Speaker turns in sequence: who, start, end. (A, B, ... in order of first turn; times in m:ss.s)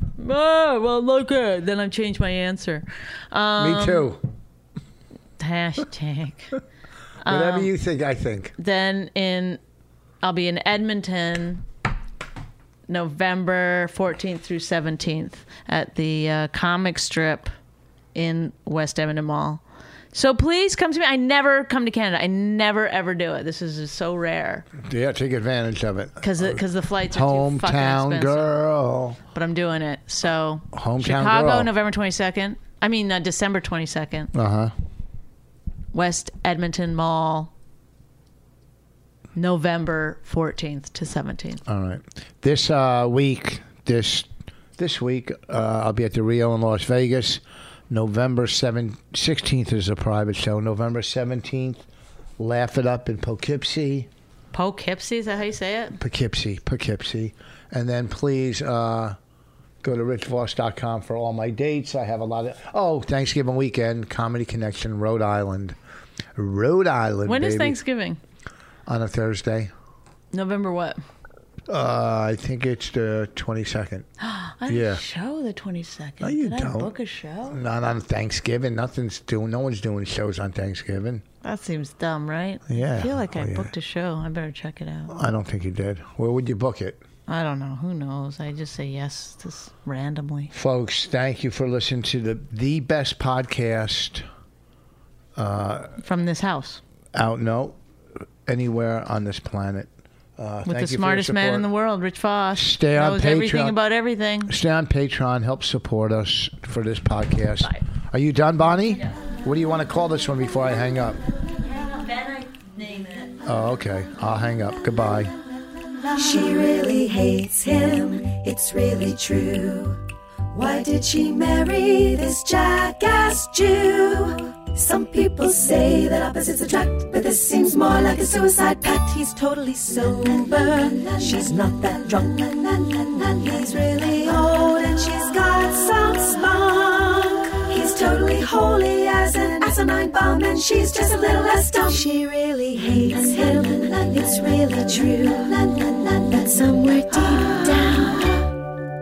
0:00.2-0:04.1 A
0:03.6-0:04.2 B
0:05.4-0:06.5 A
0:07.2-0:07.7 A
0:07.2-0:08.5 B
0:08.6-0:09.6 A
0:10.2-0:11.6 A
0:12.9-0:17.5 A
0:18.1-0:19.6 A
0:20.1-0:24.6 A
0:24.8-0:29.2 B
0:26.2-0:28.5 A
0:29.3-0:34.3 A
0:30.7-0:31.7 B
0:34.3-0:34.7 B
0:35.9-0:37.5 A
0:39.3-0:41.6 A
0:41.6-0:51.8 B
0:52.4-0:54.1 B
0:54.5-0:56.0 A
0:56.0-0:59.2 B
0:59.8-1:05.8 B
1:06.4-1:07.8 B
1:07.2-1:08.2 A
1:08.8-1:09.7 B
1:10.3-1:11.0 A
1:11.7-1:14.1 B
1:14.2-1:17.6 A
1:14.7-1:15.0 B
1:16.2-1:16.9 B
1:17.5-1:21.2 B
1:21.4-1:25.1 A
1:22.7-1:23.7 B
1:25.1-1:27.0 B
1:27.3-1:30.5 A
1:30.5-1:34.2 B
1:35.4-1:36.0 B
1:36.0-1:36.8 A
1:37.1-1:37.8 B
1:38.4-1:41.7 B
1:40.6-1:44.5 A
1:42.5-1:43.8 B
1:44.5-1:51.2 B
1:51.6-1:53.3 A
1:53.4-1:55.3 B
1:56.1-2:00.0 C
2:00.5-2:28.5 C